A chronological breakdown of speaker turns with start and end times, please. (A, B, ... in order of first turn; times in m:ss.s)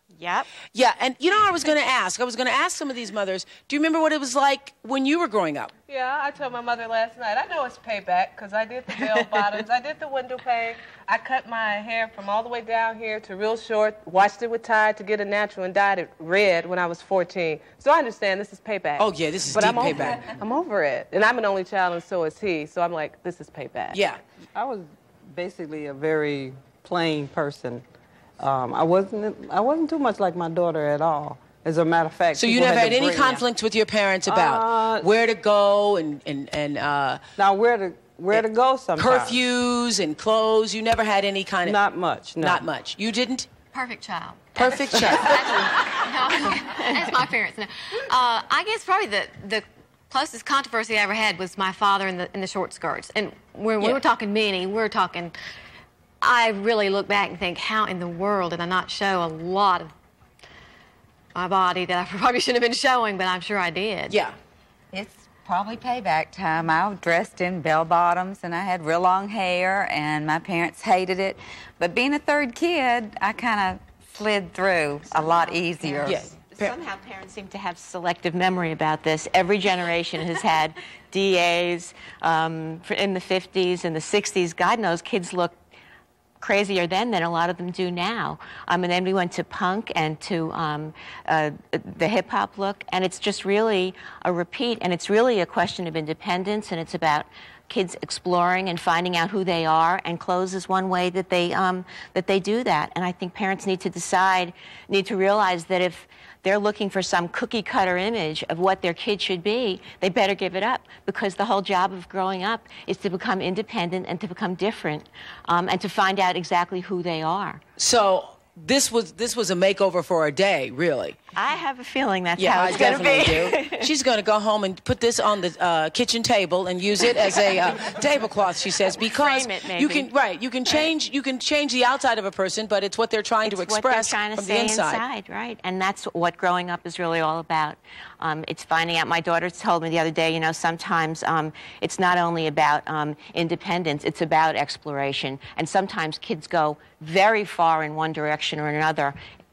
0:00.2-0:00.5 A
0:00.7-0:05.7 B
0:05.9-0:24.0 C
0:19.0-0:20.3 B
0:23.9-0:24.2 B
0:24.6-0:27.8 D
0:28.4-0:33.4 D
0:32.4-0:37.2 B
0:34.3-0:35.1 D
0:37.4-0:39.4 D
0:39.0-0:41.8 B
0:41.6-0:42.6 D
0:42.4-0:43.5 B
0:43.7-0:55.4 E
0:44.6-0:45.6 B
0:56.2-0:59.9 E
1:01.4-1:04.2 E
1:04.9-1:16.2 F
1:15.2-1:25.6 A
1:16.0-1:16.7 B
1:26.4-1:57.6 A
1:57.8-2:01.2 B
2:01.3-2:03.9 A
2:02.4-2:15.0 B
2:09.0-2:10.1 A
2:13.4-2:29.2 A